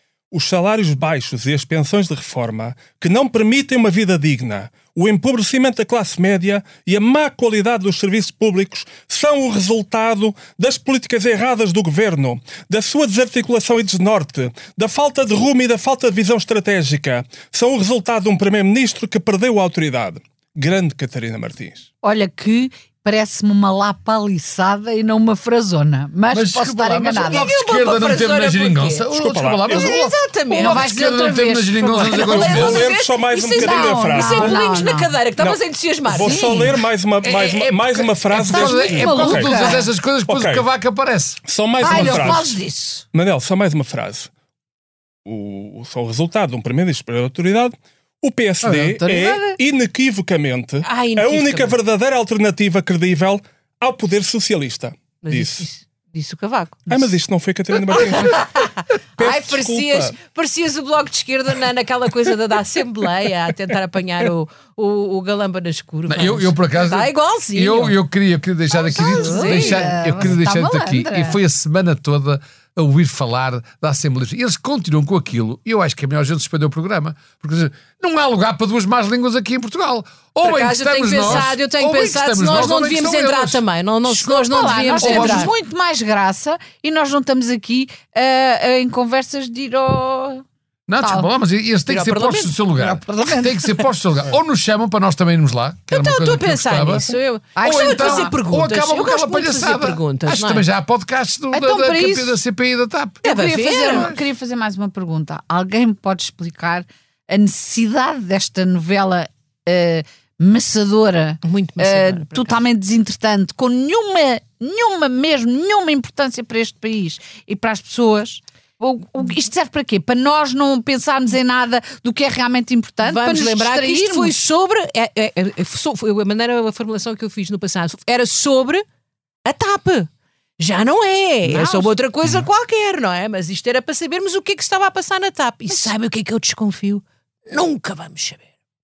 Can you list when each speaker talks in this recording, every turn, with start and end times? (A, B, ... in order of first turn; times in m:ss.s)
0:00.3-0:21.9 A
0:22.0-0:27.5 B
0:26.3-0:32.9 C
0:27.2-0:29.1 D
0:29.1-0:30.0 A
0:29.6-0:30.9 D
0:30.5-0:32.9 B
0:32.1-0:36.7 D
0:32.2-0:34.6 A
0:33.5-0:35.1 B
0:35.4-0:40.6 A
0:36.1-0:36.7 B
0:37.2-0:42.4 C
0:37.5-0:37.9 D
0:38.5-0:39.9 B
0:41.5-0:42.6 A
0:41.8-0:43.0 B
0:43.1-0:44.3 A
0:45.2-0:55.7 A
0:48.6-0:49.6 B
0:50.8-0:51.8 D
0:55.2-0:57.1 D
0:56.9-0:58.5 A
0:57.9-1:08.0 D
0:59.2-1:00.2 A
1:06.1-1:23.6 C
1:08.7-1:11.4 B
1:08.9-1:10.0 D
1:20.4-1:25.5 D
1:24.1-1:30.4 B
1:25.0-1:25.5 C
1:30.9-1:43.2 C
1:31.0-1:31.3 B
1:31.9-1:32.6 D
1:32.8-1:33.8 B
1:35.9-1:40.7 D
1:37.6-1:38.3 B
1:41.5-1:42.4 B
1:43.2-1:44.1 D
1:43.2-2:04.3 B
1:43.8-1:44.2 C
1:51.4-1:52.6 D
2:03.0-2:08.8 D
2:09.4-2:18.4 D
2:11.5-2:11.9 B